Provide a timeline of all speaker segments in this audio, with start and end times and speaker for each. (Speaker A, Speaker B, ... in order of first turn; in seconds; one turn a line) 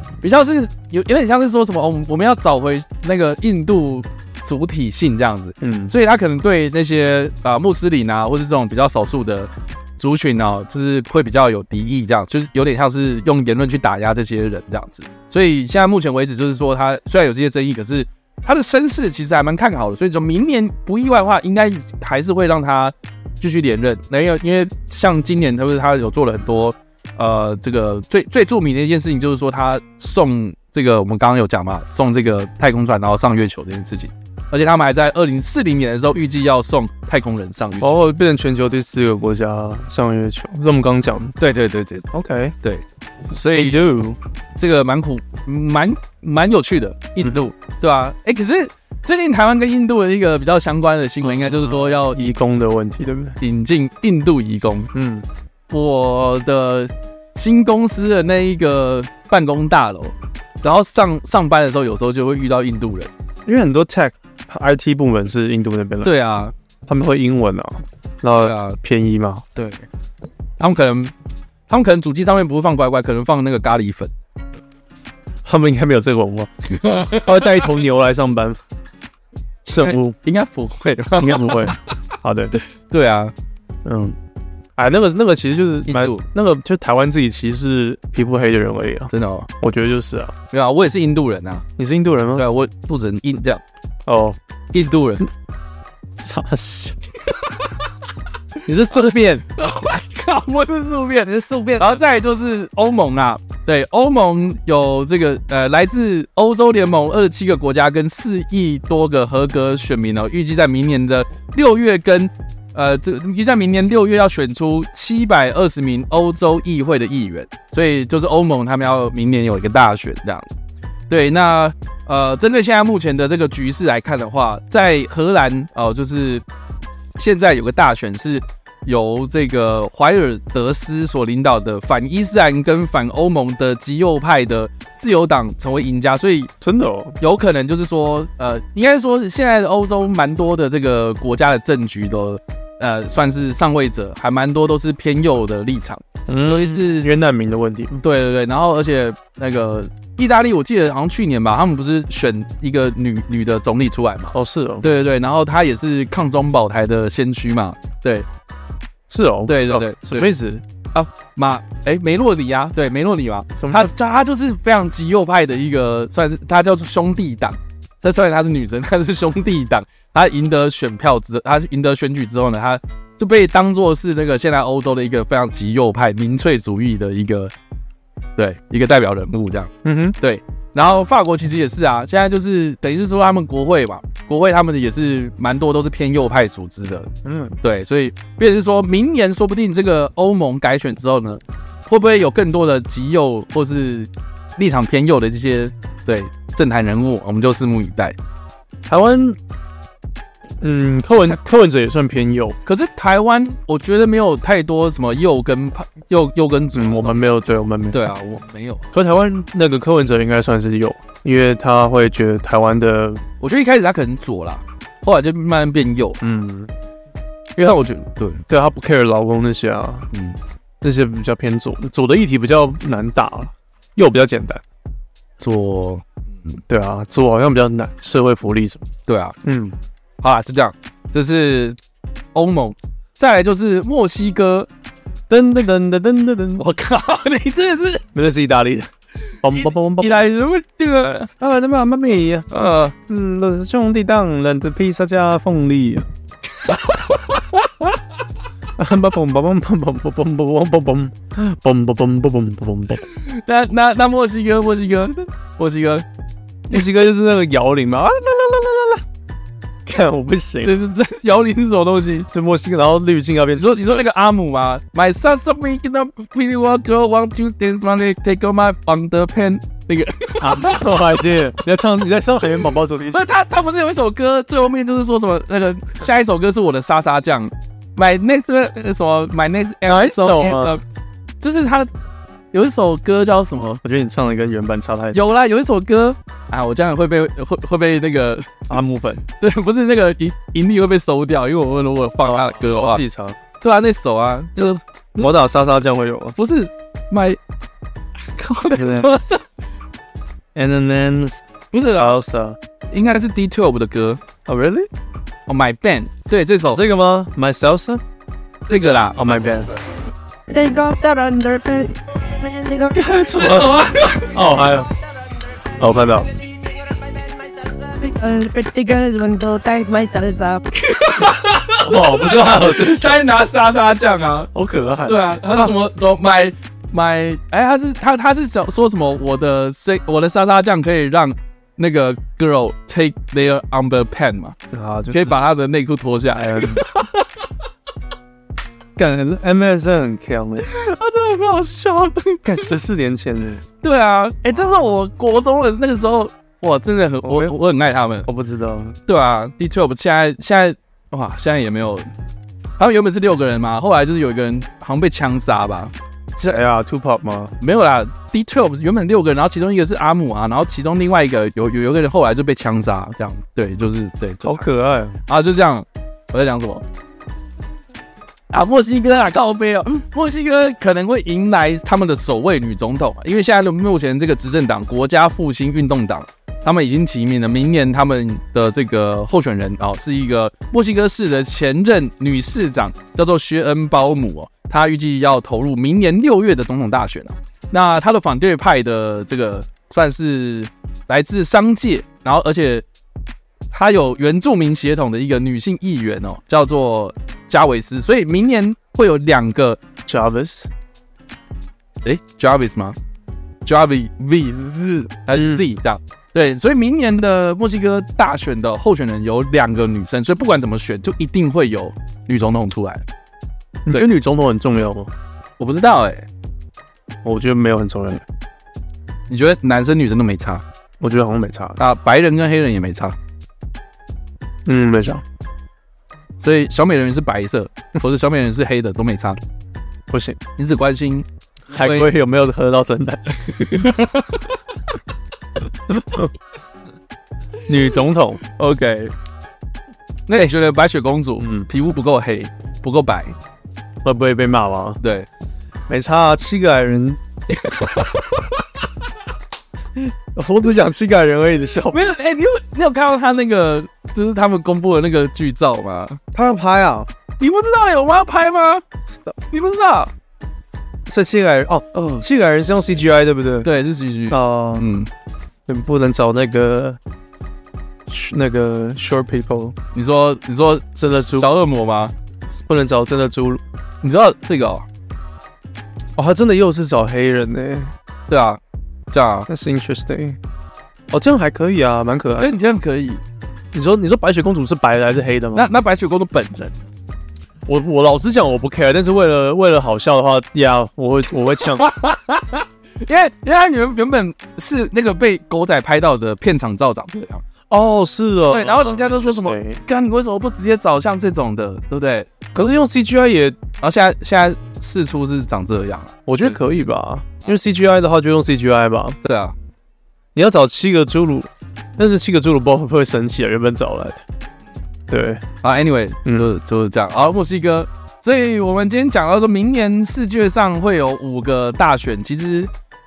Speaker A: 0.2-37.9
Speaker B: 5.6-5.9
Speaker B: 37.8-41.3
Speaker A: 41.4-42.1
Speaker B: 42.1-42.5
Speaker A: 42.6-43.8
Speaker B: 43.5-44.2
Speaker A: 44.6-52.2
Speaker B: 51.2-53.4
Speaker A: 53.4-54.9
Speaker B: 54.9-55.2
Speaker A: 55.7-63.1
Speaker B: 63.5-66.1
Speaker A: 66.0-66.5
Speaker B: 66.9-69.4
Speaker A: 68.4-68.8
Speaker A: 69.5-69.8
Speaker A: 70.6-71.1
Speaker A: 71.7-74.1
Speaker B: 75.4-78.6
Speaker A: 76.8-77.2
Speaker B: 79.6-80.2
Speaker A: 79.8-81.8
Speaker B: 81.2-82.5
Speaker A: 82.9-83.3
Speaker B: 83.8-84.1
Speaker B: 84.8-90.3
Speaker A: 85.9-86.2
Speaker A: 89.1-89.5
Speaker A: 90.5-91.7
Speaker B: 91.8-92.4
Speaker A: 92.3-93.6
Speaker B: 94.0-94.4
Speaker A: 94.7-95.3
Speaker B: 96.2-97.0
Speaker B: 98.7-99.4
Speaker A: 99.5-101.1
Speaker B: 101.0-102.0
Speaker A: 101.8-120.5
Speaker A: 121.1-126.4
Speaker A: 127.2-136.5
Speaker B: 136.6-137.2
Speaker A: 137.2-147.1
Speaker B: 146.3-148.0
Speaker A: 148.0-158.2
Speaker B: 154.3-154.8
Speaker B: 159.1-160.6
Speaker A: 159.5-160.3
Speaker A: 160.9-177.5
Speaker B: 163.6-163.9
Speaker A: 178.4-187.1
Speaker B: 179.8-180.2
Speaker B: 187.2-187.6
Speaker A: 187.6-198.2
Speaker B: 198.9-199.4
Speaker B: 200.6-202.6
Speaker A: 202.6-207.3
Speaker B: 206.7-208.0
Speaker A: 207.9-208.9
Speaker B: 208.9-213.2
Speaker A: 213.4-216.2
Speaker B: 216.2-216.7
Speaker A: 217.6-218.4
Speaker B: 218.5-220.1
Speaker A: 220.1-220.4
Speaker B: 220.8-224.6
Speaker A: 225.4-226.6
Speaker B: 226.7-228.8
Speaker A: 229.1-229.4
Speaker B: 229.4-229.8
Speaker A: 230.2-231.8
Speaker A: 232.3-234.7
Speaker B: 235.3-236.6
Speaker A: 236.6-238.1
Speaker B: 238.1-238.9
Speaker B: 239.4-240.2
Speaker A: 239.5-241.3
Speaker B: 241.4-242.5
Speaker A: 242.5-242.9
Speaker B: 243.1-246.1
Speaker A: 246.7-247.9
Speaker B: 248.8-253.0
Speaker A: 253.1-256.0
Speaker B: 256.7-259.0
Speaker B: 259.8-260.8
Speaker A: 260.6-262.3
Speaker B: 262.3-263.8
Speaker A: 263.6-271.2
Speaker B: 270.4-273.2
Speaker A: 273.1-280.8
Speaker B: 279.9-280.8
Speaker A: 281.4-281.9
Speaker A: 282.5-283.8
Speaker B: 283.8-285.2
Speaker A: 285.1-288.7
Speaker B: 288.7-289.2
Speaker A: 289.4-293.0
Speaker B: 292.2-293.4
Speaker A: 293.6-294.8
Speaker B: 294.6-296.4
Speaker A: 296.4-297.4
Speaker A: 298.4-299.4
Speaker B: 298.7-299.1
Speaker B: 300.5-301.4
Speaker A: 301.7-302.1
Speaker B: 301.9-302.6
Speaker A: 302.9-304.2
Speaker B: 304.4-304.9
Speaker A: 305.5-306.8
Speaker B: 306.7-308.0
Speaker A: 308.7-309.2
Speaker B: 309.1-309.7
Speaker C: 310.5-313.1
Speaker B: 312.9-314.9
Speaker A: 313.1-314.3
Speaker B: 315.8-316.3
Speaker C: 317.6-320.6
Speaker A: 320.8-324.5
Speaker B: 321.8-323.2
Speaker B: 324.5-325.7
Speaker A: 325.0-334.6
Speaker B: 334.7-335.4
Speaker A: 335.1-337.2
Speaker B: 336.4-336.8
Speaker B: 339.0-340.7
Speaker A: 340.6-342.7
Speaker B: 342.4-343.6
Speaker A: 343.8-348.3
Speaker B: 347.2-347.5
Speaker B: 348.2-348.9
Speaker A: 349.1-352.1
Speaker A: 352.8-355.9
Speaker B: 356.4-357.5
Speaker A: 357.6-364.6
Speaker B: 364.4-365.2
Speaker A: 365.3-366.8
Speaker A: 368.5-392.9
Speaker A: 393.7-399.8
Speaker B: 400.1-400.7
Speaker A: 402.0-402.9
Speaker A: 403.6-413.0
Speaker B: 405.3-405.6
Speaker B: 413.9-415.1
Speaker A: 415.6-416.2
Speaker B: 417.2-418.2
Speaker A: 419.3-420.6
Speaker B: 421.0-421.8
Speaker A: 421.8-423.1
Speaker B: 424.6-425.2
Speaker A: 426.4-429.4
Speaker B: 430.1-430.4
Speaker A: 430.6-432.1
Speaker B: 431.7-433.4
Speaker A: 433.4-434.4
Speaker B: 436.0-436.3
Speaker B: 437.7-438.4
Speaker A: 438.5-439.1
Speaker A: 440.3-443.4
Speaker B: 441.4-441.7
Speaker B: 444.0-445.0
Speaker A: 445.0-445.3
Speaker B: 445.9-447.2
Speaker A: 447.5-448.4
Speaker B: 449.9-452.0
Speaker A: 451.9-456.2
Speaker B: 456.3-457.1
Speaker A: 457.4-458.8
Speaker A: 459.5-460.1
Speaker B: 461.1-463.7
Speaker A: 461.9-462.2
Speaker A: 463.6-465.1
Speaker B: 464.3-464.9
Speaker B: 465.7-467.0
Speaker B: 468.1-469.8
Speaker A: 469.9-472.1
Speaker B: 470.9-471.5
Speaker B: 472.5-473.6
Speaker A: 474.0-474.9
Speaker B: 476.1-477.9
Speaker A: 478.3-478.6
Speaker A: 479.1-479.5
Speaker B: 479.5-480.4
Speaker B: 481.1-482.5
Speaker A: 482.4-483.2
Speaker B: 483.7-485.7
Speaker A: 485.5-486.8
Speaker B: 487.6-491.9
Speaker A: 491.8-497.4
Speaker B: 497.7-499.8
Speaker A: 498.5-502.3
Speaker B: 502.5-503.6
Speaker A: 503.8-506.6
Speaker B: 506.2-509.2
Speaker A: 509.2-509.5
Speaker B: 510.4-514.2
Speaker B: 515.1-515.4
Speaker A: 515.6-522.7